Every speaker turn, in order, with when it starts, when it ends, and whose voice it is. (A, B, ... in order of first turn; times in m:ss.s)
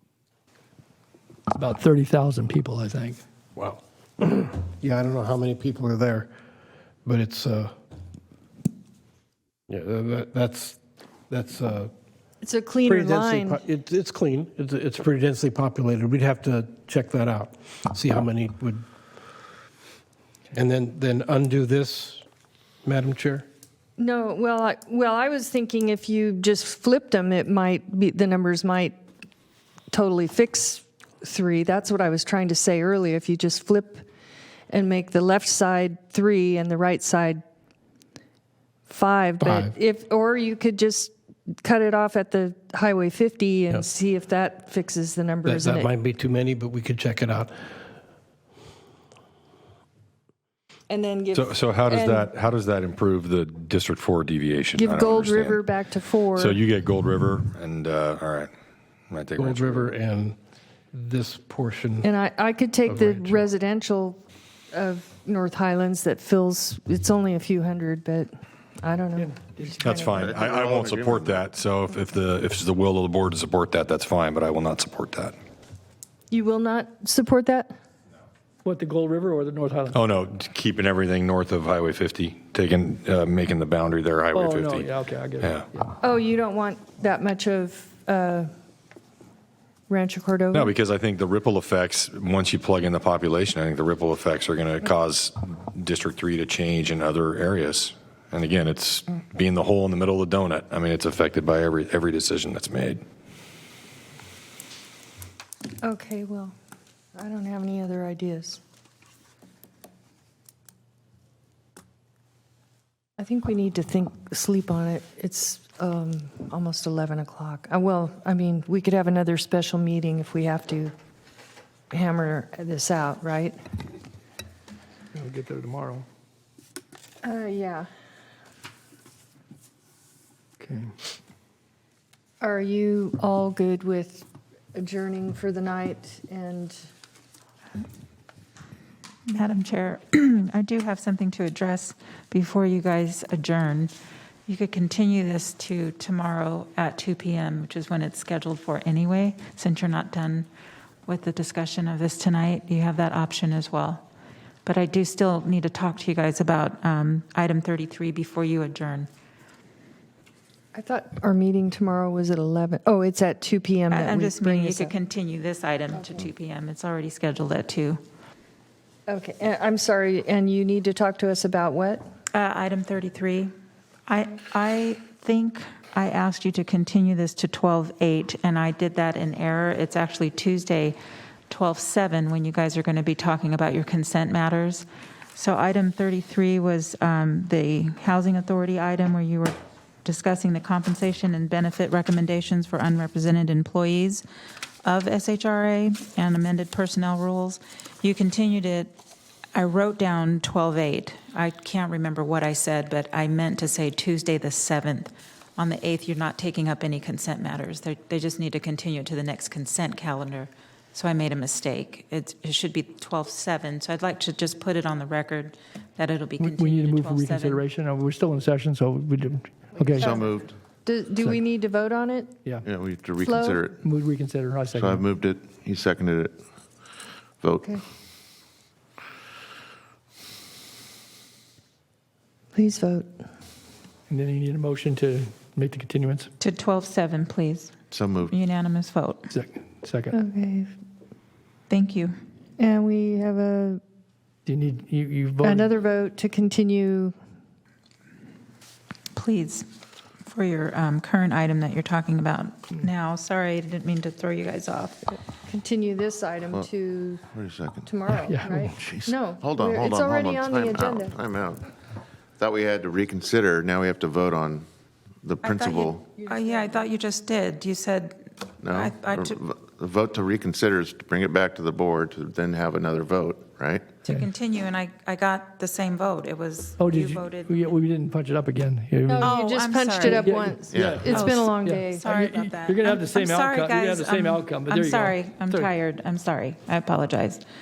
0:01.6-0:03.2 A
0:03.5-0:06.3 B
0:07.0-0:07.7 B
0:09.7-0:11.9 B
0:12.4-0:13.6 C
0:12.8-0:18.8 B
0:20.5-0:22.2 B
0:22.8-0:23.5 B
0:24.0-0:29.0 C
0:29.9-0:34.1 C
0:34.7-0:37.4 C
0:38.9-0:45.9 C
0:39.4-0:39.7 B
0:45.4-0:47.7 B
0:50.9-0:52.3 C
0:51.3-0:55.6 D
0:54.8-0:56.6 C
0:56.4-0:58.5 D
0:59.1-0:59.9 D
0:59.4-1:00.4 B
1:00.9-1:02.1 B
1:02.0-1:04.2 C
1:02.9-1:03.4 B
1:04.7-1:10.3 C
1:09.2-1:09.7 A
1:09.8-1:15.4 D
1:10.1-1:11.4 E
1:16.3-1:17.7 C
1:18.6-1:20.0 A
1:19.9-1:24.9 D
1:24.4-1:25.5 A
1:25.4-1:25.7 D
1:26.0-1:28.5 C
1:29.9-1:30.7 C
1:30.5-1:43.0 D
1:45.8-1:46.5 C
1:47.1-1:48.6 C
1:53.2-2:00.9 C
2:01.9-2:03.6 C
2:05.2-2:06.0 A
2:07.2-2:07.9 C
2:10.6-2:10.9 A
2:12.4-2:16.8 C
2:19.3-2:23.9 F
2:24.5-2:30.5 F
2:31.1-2:34.0 F
2:34.6-2:39.1 F
2:40.7-2:44.9 C
2:43.9-2:48.0 F
2:45.9-2:46.3 C
2:49.1-2:52.0 C
2:52.3-2:53.5 F
2:54.1-3:01.0 F
3:01.5-3:14.2 F
3:14.8-3:19.0 F
3:19.5-3:37.6 F
3:36.4-3:40.1 A
3:40.0-3:40.5 E
3:40.0-3:42.3 C
3:42.6-3:43.8 E
3:43.2-3:43.6 C
3:43.8-3:45.0 A
3:44.7-3:46.4 E
3:47.4-3:47.7 E
3:52.5-3:53.1 C
3:54.1-3:56.3 A
3:56.4-3:57.7 F
3:57.9-3:58.3 E
3:58.3-3:59.3 F
3:59.3-4:00.2 A
4:00.1-4:00.7 C
4:01.7-4:02.1 F
4:02.6-4:03.8 C
4:04.5-4:05.7 A
4:05.4-4:07.1 C
4:09.2-4:09.7 F
4:10.2-4:15.0 F
4:15.1-4:17.2 C
4:17.3-4:21.7 E
4:17.8-4:21.2 C
4:18.1-4:18.6 A
4:22.4-4:24.7 E
4:25.2-4:26.0 E
4:25.4-4:29.4 F
4:26.2-4:26.9 C
4:28.6-4:33.9 E
4:34.0-4:37.8 F
4:36.8-4:39.3 A
4:39.1-4:42.1 C
4:39.2-4:40.3 F
4:40.2-4:45.7 A
4:40.7-4:41.4 E
4:41.1-4:47.4 F